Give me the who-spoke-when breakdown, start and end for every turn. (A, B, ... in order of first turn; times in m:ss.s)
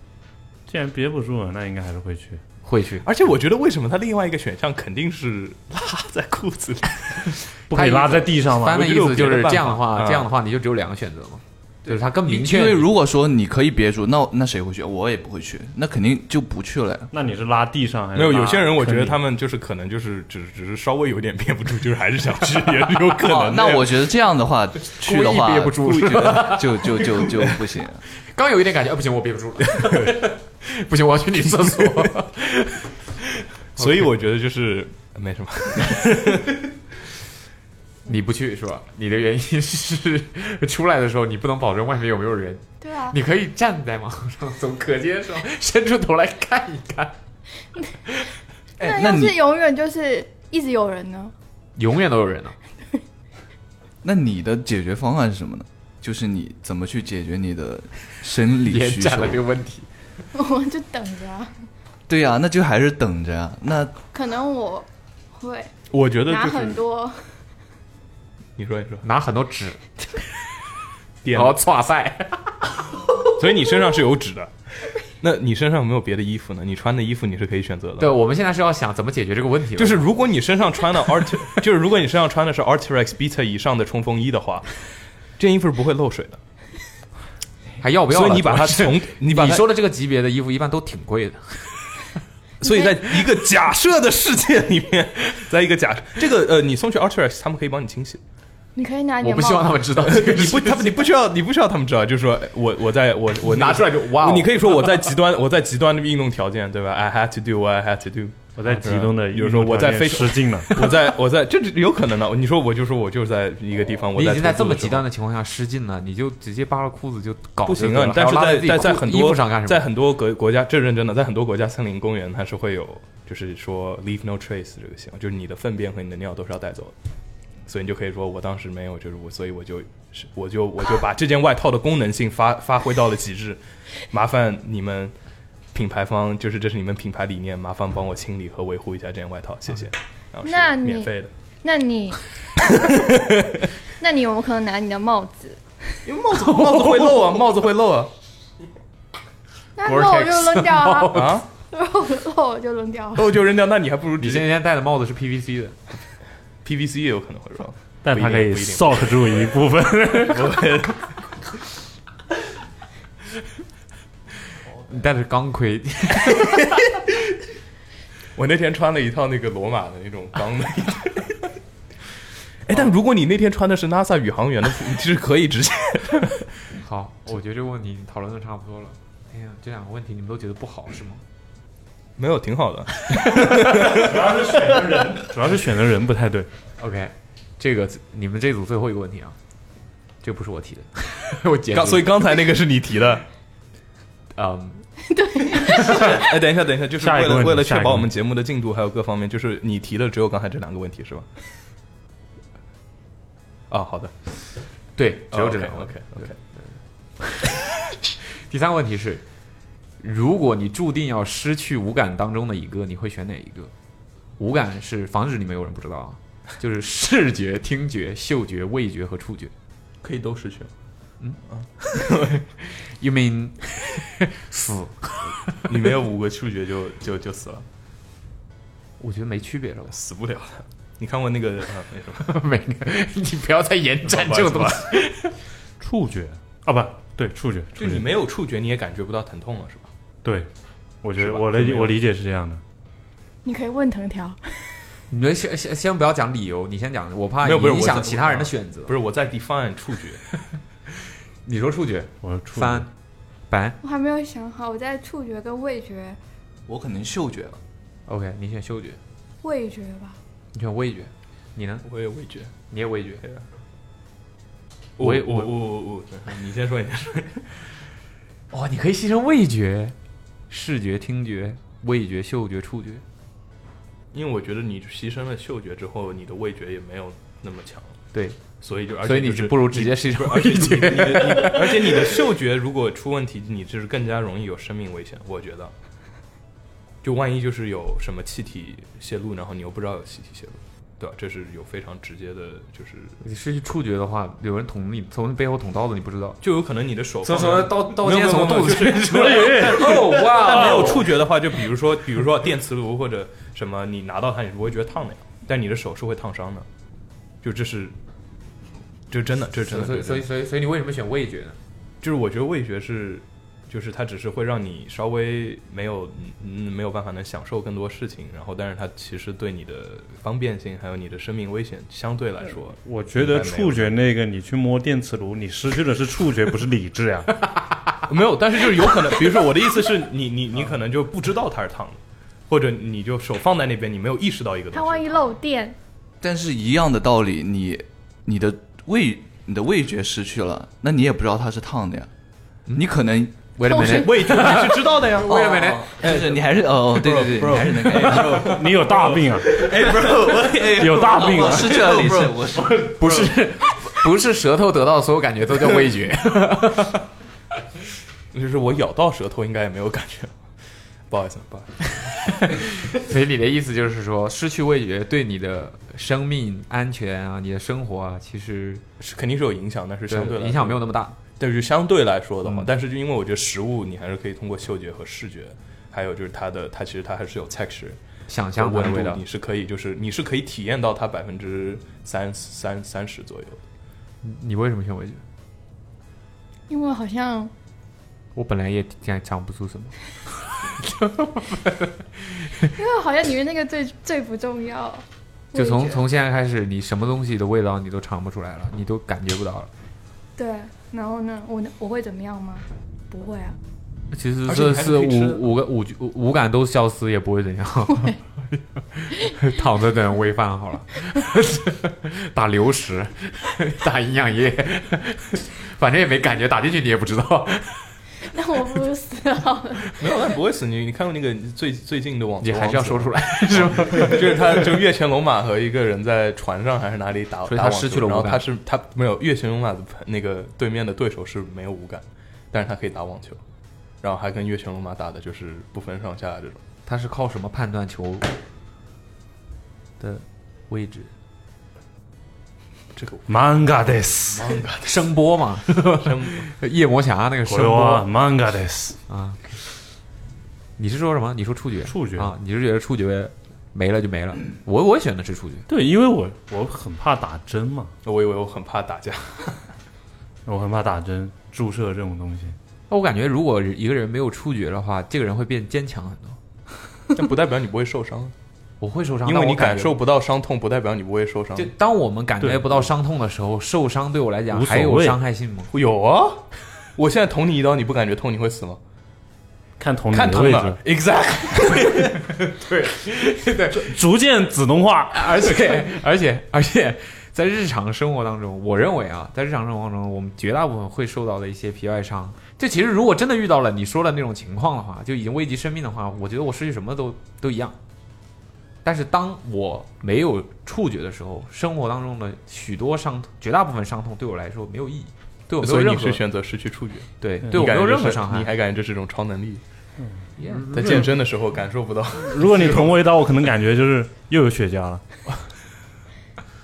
0:00.7-0:02.4 A
0:02.6-0:03.1 B
0:03.0-0:07.3 C
0:07.7-0:08.9 A
0:07.7-0:12.9 B
0:08.7-0:10.3 C
0:12.2-0:17.1 D
0:17.1-0:19.0 A
0:18.2-0:24.0 C
0:23.3-0:28.0 D
0:24.9-0:27.0 B
0:28.3-0:32.9 B
0:29.7-0:30.2 C
0:31.4-0:32.1 C
0:33.8-0:36.7 C
0:33.8-0:34.1 B
0:38.1-0:47.2 B
0:42.8-0:43.2 E
0:48.8-0:49.4 D
0:48.8-0:51.3 E
0:51.8-0:52.6 B
0:54.0-0:59.4 D
0:58.6-0:59.9 B
1:00.3-1:01.5 E
1:02.1-1:04.0 D
1:04.1-1:05.7 E
1:05.9-1:06.8 C
1:06.3-1:07.2 E
1:08.6-1:09.0 C
1:09.0-1:09.8 B
1:11.2-1:11.6 C
1:11.4-1:12.7 B
1:13.3-1:14.5 C
1:15.2-1:18.2 C
1:18.0-1:20.1 B
1:19.8-1:24.8 C
1:25.4-1:26.4 C
1:27.8-1:32.0 B
1:28.1-1:29.7 C
1:32.6-1:38.2 C
1:32.6-1:32.9 E
1:38.8-1:39.8 E
1:39.2-1:41.0 B
1:40.0-1:55.1 C
1:43.4-1:44.9 B
1:48.6-1:50.8 A
1:54.2-1:59.9 B
1:57.6-2:07.0 C
2:07.7-2:15.2 C
2:15.7-2:21.3 C
2:20.4-2:21.1 E
2:21.6-2:22.3 E
2:22.7-2:23.6 C
2:24.0-2:25.7 E
2:26.0-2:28.1 C
2:26.4-2:27.1 B
2:29.8-2:33.3 E
2:29.9-2:31.4 B
2:31.1-2:31.5 C
2:33.2-2:34.5 C
2:34.2-2:35.8 B
2:36.6-2:39.4 C
2:38.0-2:40.5 A
2:40.2-2:41.2 C
2:44.9-2:46.7 B
2:48.4-2:51.5 C
2:52.6-2:56.5 C
2:56.8-3:01.2 B
3:02.2-3:05.1 C
3:03.9-3:06.5 A
3:06.8-3:09.4 B
3:10.2-3:12.1 B
3:11.7-3:13.3 C
3:14.4-3:14.9 B
3:15.1-3:16.2 E
3:15.8-3:21.3 C
3:17.0-3:18.1 A
3:23.7-3:24.1 C
3:25.0-3:26.7 B
3:25.3-3:26.4 C
3:28.5-3:29.2 B
3:30.0-3:33.7 B
3:34.4-3:39.5 B
3:40.0-3:40.7 C
3:41.5-3:42.4 C
3:42.1-3:45.6 B
3:45.7-3:47.7 C
3:49.0-3:49.9 B
3:49.9-3:52.3 C
3:52.3-3:55.3 B
3:54.0-3:55.0 C
3:55.8-3:58.0 A
3:57.8-3:59.9 C
4:01.0-4:02.6 A
4:01.2-4:02.0 C
4:03.4-4:04.6 E
4:05.1-4:08.9 B
4:07.4-4:10.2 C
4:11.4-4:12.9 B
4:12.2-4:12.9 A
4:13.5-4:13.8 B
4:13.8-4:16.2 E
4:16.7-4:17.6 D
4:18.1-4:19.0 B
4:19.4-4:20.2 E
4:20.5-4:21.9 B
4:21.8-4:22.5 C
4:22.7-4:23.2 B
4:23.2-4:23.5 C
4:25.0-4:27.7 C
4:25.0-4:25.6 B
4:28.5-4:30.0 B
4:30.5-4:33.0 B
4:34.1-4:38.0 C
4:38.1-4:38.4 B
4:38.6-4:45.7 C
4:39.0-4:42.0 B
4:47.0-4:53.2 C
4:53.2-4:56.4 B
4:56.4-5:06.7 C
4:57.2-5:01.0 B
4:59.3-5:00.0 A
5:07.4-5:08.0 C
5:09.1-5:10.3 C
5:09.7-5:11.6 B
5:12.0-5:24.0 C
5:22.8-5:27.4 A
5:28.1-5:35.3 C
5:34.7-5:35.8 E
5:36.2-5:42.1 D
5:42.7-5:43.5 D
5:43.4-5:46.0 B
5:43.7-5:44.6 E
5:43.8-5:52.4 C
5:45.3-5:48.6 D
5:48.0-5:49.7 A
5:49.9-5:52.9 D
5:50.8-5:52.8 A
5:52.9-5:57.0 B
5:58.3-6:00.4 C
6:01.1-6:01.9 C
6:02.3-6:08.8 B
6:09.0-6:10.8 C
6:10.1-6:11.2 B
6:11.4-6:18.0 C
6:18.3-6:19.2 B
6:18.5-6:23.6 C
6:24.2-6:25.2 B
6:26.7-6:27.5 E
6:28.4-6:30.0 B
6:30.8-6:32.7 B
6:32.8-6:36.0 E
6:35.5-6:39.7 B
6:40.4-6:43.6 E
6:44.1-6:58.0 B
6:44.5-6:45.5 C
6:58.3-7:00.0 E
7:00.0-7:13.4 C
7:02.4-7:04.5 B
7:07.5-7:08.4 B
7:14.0-7:16.6 C
7:16.9-7:18.3 B
7:20.0-7:21.1 B
7:22.9-7:25.1 C
7:23.3-7:24.5 A
7:24.8-7:28.1 B
7:25.8-7:26.5 C
7:27.5-7:29.0 A
7:29.1-7:29.4 B
7:30.8-7:35.7 B
7:31.9-7:32.3 A
7:35.7-7:37.9 A
7:38.0-7:39.8 C
7:40.5-7:42.6 A
7:42.9-7:46.4 B
7:47.1-7:48.4 C
7:48.8-7:50.0 B
7:49.2-7:51.7 C
7:51.6-7:55.7 B
7:52.4-7:52.8 A
7:54.5-7:55.2 A
7:55.7-7:58.8 C
7:59.8-8:00.8 A
8:00.1-8:02.3 C
8:02.4-8:03.9 B
8:03.7-8:05.4 A
8:05.1-8:17.8 B
8:18.8-8:26.2 B
8:25.6-8:29.6 C
8:27.2-8:28.5 B
8:30.0-8:31.1 A
8:30.4-8:30.7 B
8:30.7-8:33.0 C
8:32.2-8:35.0 A